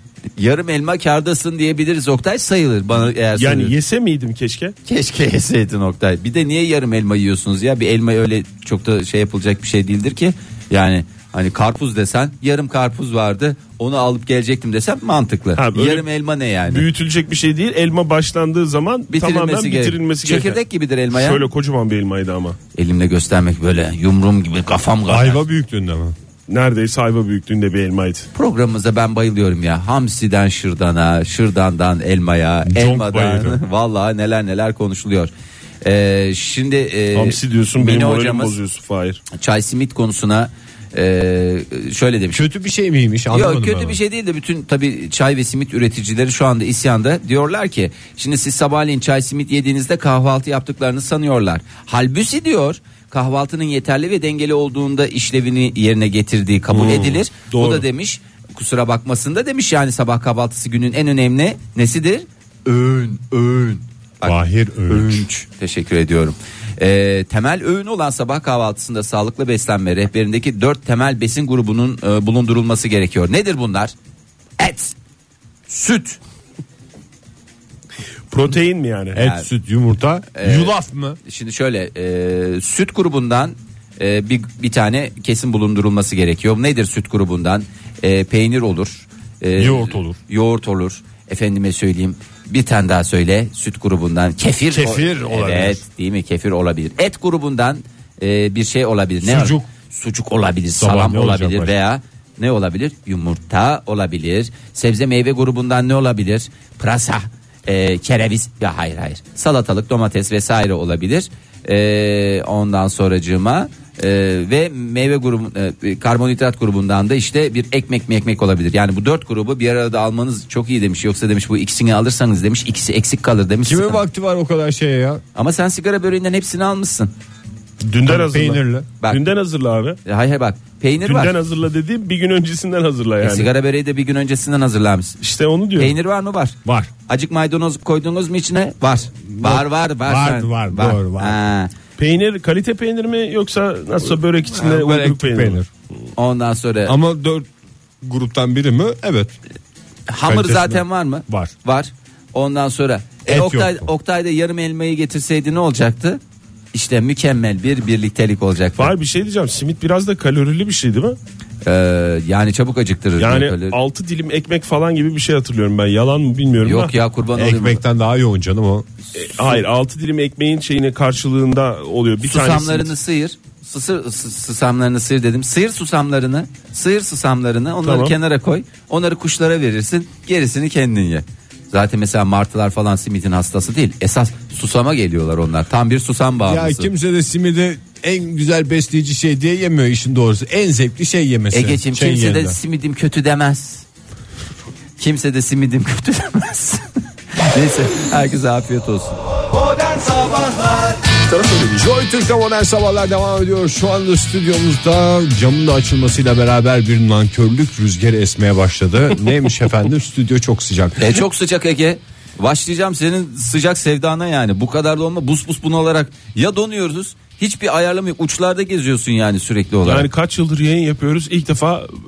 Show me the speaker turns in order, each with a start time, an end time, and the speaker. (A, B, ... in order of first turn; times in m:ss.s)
0:00.4-0:03.7 A
0:03.3-0:04.8 B
0:04.8-0:16.8 A
0:15.6-0:16.1 B
0:16.7-0:20.6 B
0:19.1-0:21.4 A
0:21.1-0:22.6 B
0:22.7-0:25.4 A
0:25.1-0:26.1 C
0:26.5-0:28.3 B
0:28.3-0:35.3 A
0:32.6-0:33.6 C
0:35.8-0:38.5 A
0:37.1-0:39.2 B
0:39.3-0:42.4 A
0:42.3-0:44.0 C
0:43.3-1:13.9 A
0:56.7-0:57.8 B
1:04.2-1:05.2 C
1:14.6-1:14.9 A
1:15.7-1:16.2 A
1:18.3-1:19.2 B
1:19.1-1:21.2 C
1:19.2-1:19.5 A
1:20.3-2:04.0 A
1:29.6-1:30.2 C
1:34.7-1:35.8 C
1:39.2-1:39.7 C
1:40.8-1:41.7 C
2:03.6-2:05.2 C
2:05.3-2:07.1 A
2:07.8-2:10.0 B
2:08.0-2:08.9 C
2:10.0-2:11.3 A
2:11.0-2:13.5 B
2:13.2-2:15.2 A
2:15.2-2:16.0 B
2:15.8-2:21.7 A
2:16.6-2:16.9 C
2:19.3-2:21.4 C
2:22.0-2:25.6 B
2:24.5-2:25.7 C
2:26.1-2:27.0 A
2:26.8-2:27.5 C
2:28.0-2:29.3 C
2:30.1-2:36.2 A
2:30.2-2:31.5 C
2:33.3-2:33.9 C
2:36.7-2:38.9 A
2:38.8-2:41.2 B
2:41.6-2:43.8 A
2:43.2-2:47.0 B
2:46.6-2:47.8 A
2:47.4-2:48.9 C
2:49.2-2:52.9 B
2:52.2-3:06.9 A
2:57.8-2:58.2 B
3:06.4-3:12.6 C
3:11.5-3:13.8 A
3:15.0-3:19.2 A
3:19.9-3:20.8 A
3:21.3-3:21.8 B
3:21.7-3:31.0 C
3:31.0-3:40.0 A
3:39.8-3:41.9 B